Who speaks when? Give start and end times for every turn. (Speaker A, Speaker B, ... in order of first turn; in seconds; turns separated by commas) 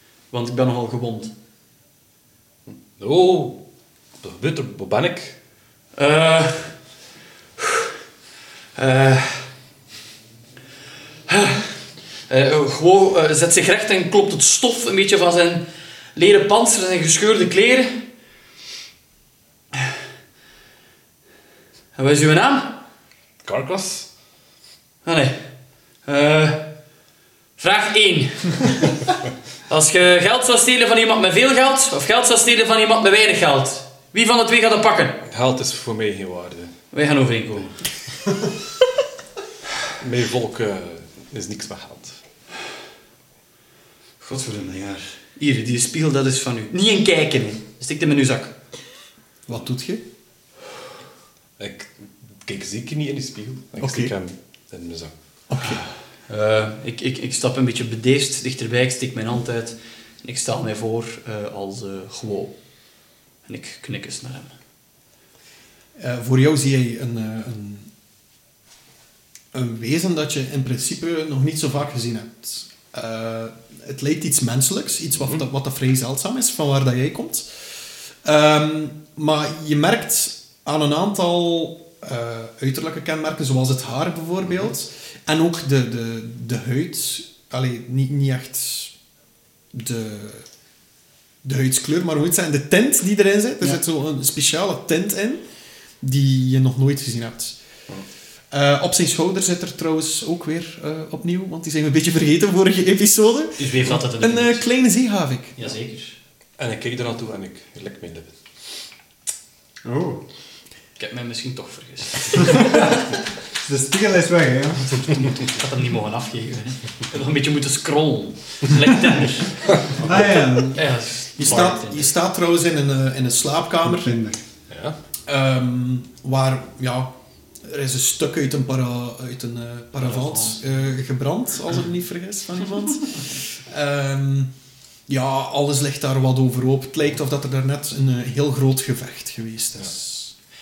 Speaker A: 0.3-1.3, Speaker B: 2.7-3.6, Speaker B: 4.2-5.4, Speaker A: 6.0-6.8, Speaker A: 7.6-7.9, Speaker A: 8.8-9.5, Speaker A: 11.3-18.0, Speaker A: 21.9-22.8, Speaker B: 23.4-24.1, Speaker A: 25.0-25.4, Speaker A: 26.1-26.7, Speaker A: 27.6-29.0, Speaker A: 29.7-35.2, Speaker B: 35.3-36.7, Speaker A: 36.9-37.8, Speaker B: 40.0-42.2, Speaker A: 44.2-48.5, Speaker C: 49.5-50.0, Speaker B: 51.6-51.9, Speaker B: 52.5-55.1, Speaker C: 53.8-54.1, Speaker C: 55.5-55.8, Speaker A: 56.3-62.6, Speaker A: 63.5-64.5, Speaker C: 66.0-67.9, Speaker C: 69.5-77.5, Speaker C: 78.2-88.9, Speaker C: 89.7-90.5, Speaker C: 91.4-95.5, Speaker C: 96.0-97.6, Speaker C: 98.5-105.7, Speaker A: 103.6-104.6, Speaker A: 105.6-106.2, Speaker B: 106.6-108.3, Speaker D: 109.8-110.2, Speaker A: 111.0-113.0, Speaker D: 113.6-115.1, Speaker A: 115.4-119.6, Speaker D: 120.0-120.8, Speaker A: 120.7-122.1, Speaker C: 121.4-124.1, Speaker D: 123.8-124.4, Speaker B: 124.7-125.0, Speaker C: 125.3-134.5, Speaker A: 130.1-130.5, Speaker C: 135.1-140.3